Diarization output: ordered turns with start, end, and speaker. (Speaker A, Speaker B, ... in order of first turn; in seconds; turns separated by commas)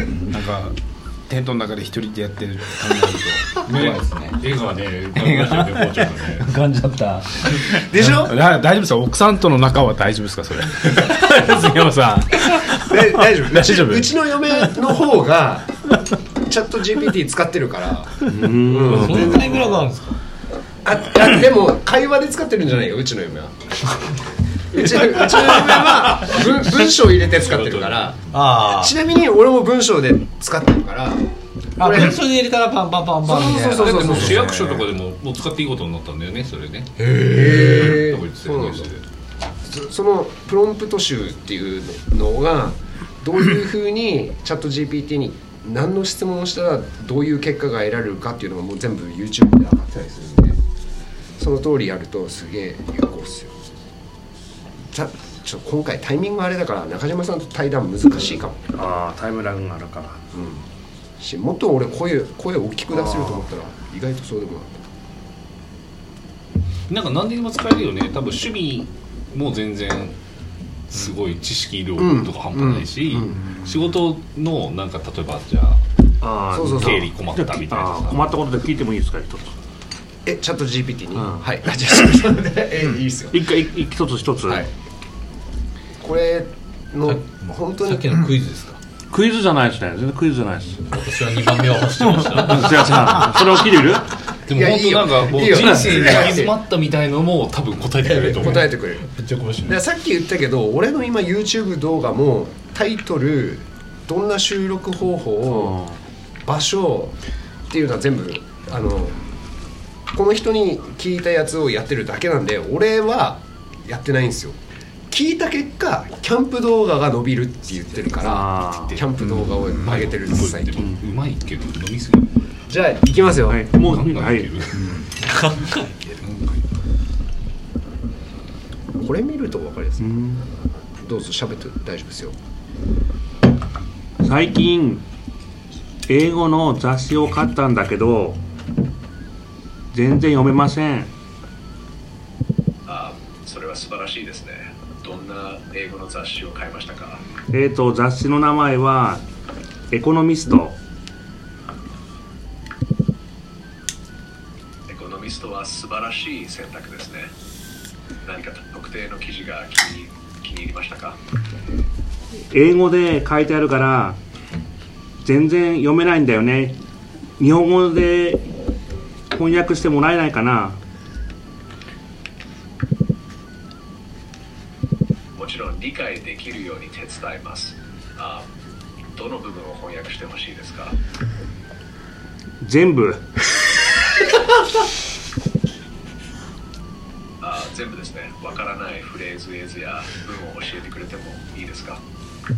Speaker A: 0.2-4.4, Speaker B: 3.7-6.4, Speaker A: 5.2-5.9, Speaker C: 6.5-7.6, Speaker D: 7.5-8.3, Speaker A: 7.5-14.1, Speaker D: 12.7-15.9, Speaker D: 16.4-19.6, Speaker C: 18.3-18.9, Speaker E: 18.8-20.2, Speaker D: 20.8-23.5, Speaker D: 24.7-31.2, Speaker B: 27.3-28.1, Speaker E: 28.3-29.0, Speaker E: 31.8-34.3, Speaker D: 31.8-32.3, Speaker D: 33.2-34.8, Speaker B: 33.7-39.0, Speaker E: 37.0-37.5, Speaker D: 37.2-38.9, Speaker D: 39.6-50.6, Speaker D: 51.4-53.5, Speaker D: 54.9-58.6, Speaker C: 58.7-60.2, Speaker D: 60.3-60.6, Speaker D: 61.2-64.8, Speaker C: 62.9-63.5, Speaker B: 66.9-70.2, Speaker B: 70.9-75.8, Speaker D: 72.0-73.6, Speaker C: 76.2-79.5, Speaker D: 76.5-77.1, Speaker B: 76.6-78.2, Speaker D: 80.2-83.5, Speaker C: 81.1-81.5, Speaker C: 83.3-84.7, Speaker D: 86.0-88.2, Speaker E: 87.0-88.8, Speaker C: 89.1-90.9, Speaker E: 90.9-93.1, Speaker C: 92.3-94.1, Speaker B: 94.5-98.7, Speaker D: 94.5-96.5, Speaker E: 95.4-96.5, Speaker D: 98.0-99.1, Speaker E: 98.2-99.8, Speaker D: 99.7-105.7, Speaker C: 105.5-106.0, Speaker D: 106.4-107.2, Speaker D: 107.7-109.2, Speaker D: 110.1-114.6, Speaker D: 115.1-120.8, Speaker C: 118.2-119.0, Speaker B: 119.2-122.6, Speaker D: 122.7-123.7, Speaker C: 123.5-124.9, Speaker B: 123.7-125.1, Speaker E: 125.2-126.0, Speaker B: 126.2-126.6, Speaker D: 128.9-130.1, Speaker C: 130.0-130.4, Speaker D: 131.0-132.3, Speaker C: 134.2-135.0, Speaker C: 136.1-138.4, Speaker C: 139.9-141.1, Speaker F: 142.8-147.2, Speaker C: 147.5-149.2, Speaker C: 149.9-150.8, Speaker F: 154.9-157.3, Speaker F: 158.2-161.2, Speaker C: 162.5-164.2, Speaker C: 165.2-166.8, Speaker C: 167.4-168.4, Speaker C: 169.3-170.8, Speaker F: 175.3-178.5, Speaker F: 179.1-181.0, Speaker C: 182.6-183.2, Speaker F: 187.4-192.0